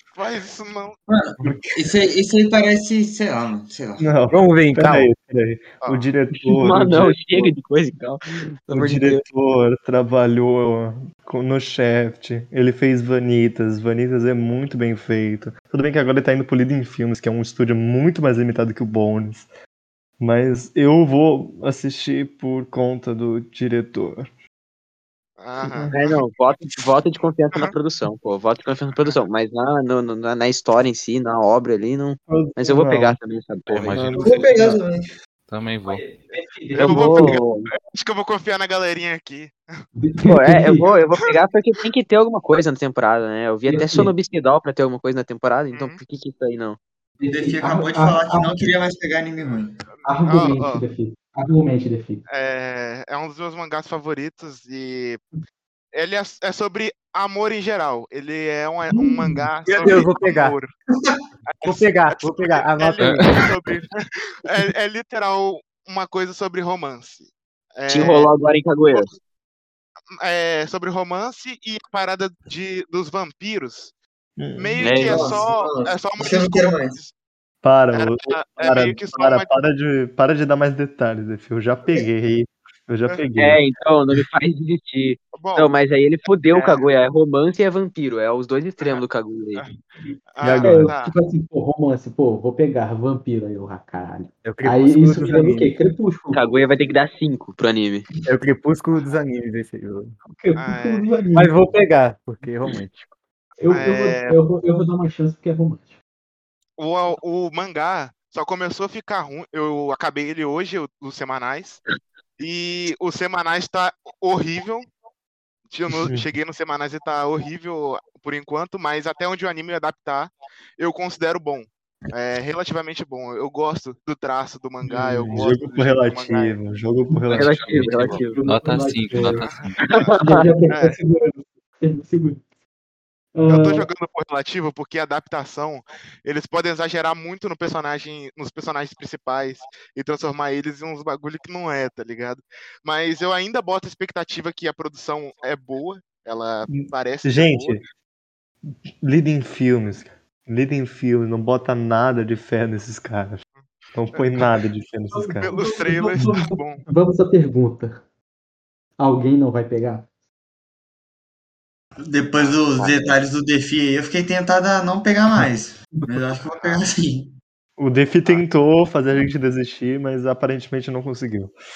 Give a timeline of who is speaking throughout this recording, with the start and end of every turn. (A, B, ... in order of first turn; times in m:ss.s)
0:00.1-0:01.0 A
0:01.1-0:04.1 B
0:04.0-0:07.2 C
0:04.3-0:05.1 D
0:05.8-0:06.1 A
0:06.3-0:09.2 E
0:08.7-0:19.5 C
0:20.2-0:24.3 C
0:25.4-0:25.9 A
0:25.6-0:26.0 C
0:25.9-0:34.1 E
0:28.9-0:29.2 A
0:32.3-0:33.2 C
0:33.7-0:34.7 F
0:33.9-0:34.2 C
0:34.2-0:35.0 B
0:35.5-0:36.1 F
0:35.9-0:37.3 G
0:36.7-0:37.7 E
0:36.8-0:39.6 A
0:40.0-0:40.8 G
0:40.2-0:46.8 E
0:43.7-0:44.1 G
0:45.7-0:46.0 A
0:47.2-0:48.5 G
0:47.3-0:49.8 B
0:49.4-0:50.8 A
0:50.0-0:52.2 G
0:52.3-0:55.2 A
0:55.9-1:00.7 A
0:58.9-0:59.5 G
0:59.6-1:00.6 D
1:01.6-1:08.3 A
1:01.6-1:03.4 D
1:03.0-1:03.5 F
1:07.9-1:09.1 E
1:10.2-1:13.9 A
1:14.4-1:14.9 C
1:14.6-1:17.1 A
1:14.8-1:15.5 E
1:15.0-1:17.0 B
1:17.6-1:23.6 C
1:17.9-1:19.5 A
1:23.4-1:29.6 E
1:25.3-1:25.7 A
1:26.5-1:26.9 A
1:30.4-1:31.1 A
1:30.4-1:30.9 C
1:30.6-1:36.4 G
1:34.4-1:35.7 D
1:36.3-1:38.1 E
1:38.2-1:40.1 D
1:40.2-1:41.6 G
1:40.6-1:41.4 A
1:41.3-1:43.1 D
1:43.6-1:46.0 G
1:43.7-1:44.4 A
1:46.8-1:51.8 A
1:52.4-1:54.9 A
1:55.7-2:06.6 A
2:04.8-2:05.4 G
2:05.3-2:07.7 C
2:07.3-2:08.4 E
2:07.4-2:09.8 F
2:08.1-2:09.4 G
2:09.8-2:10.5 E
2:10.2-2:12.4 G
2:10.7-2:11.0 A
2:13.3-2:13.9 G
2:13.5-2:27.8 A
2:26.7-2:27.8 C
2:28.7-2:33.4 C
2:33.9-2:35.6 C
2:34.1-2:34.5 A
2:35.1-2:38.0 G
2:35.4-2:36.8 A
2:39.0-2:40.1 G
2:42.0-2:47.3 B
2:42.8-2:43.1 E
2:47.8-2:51.5 C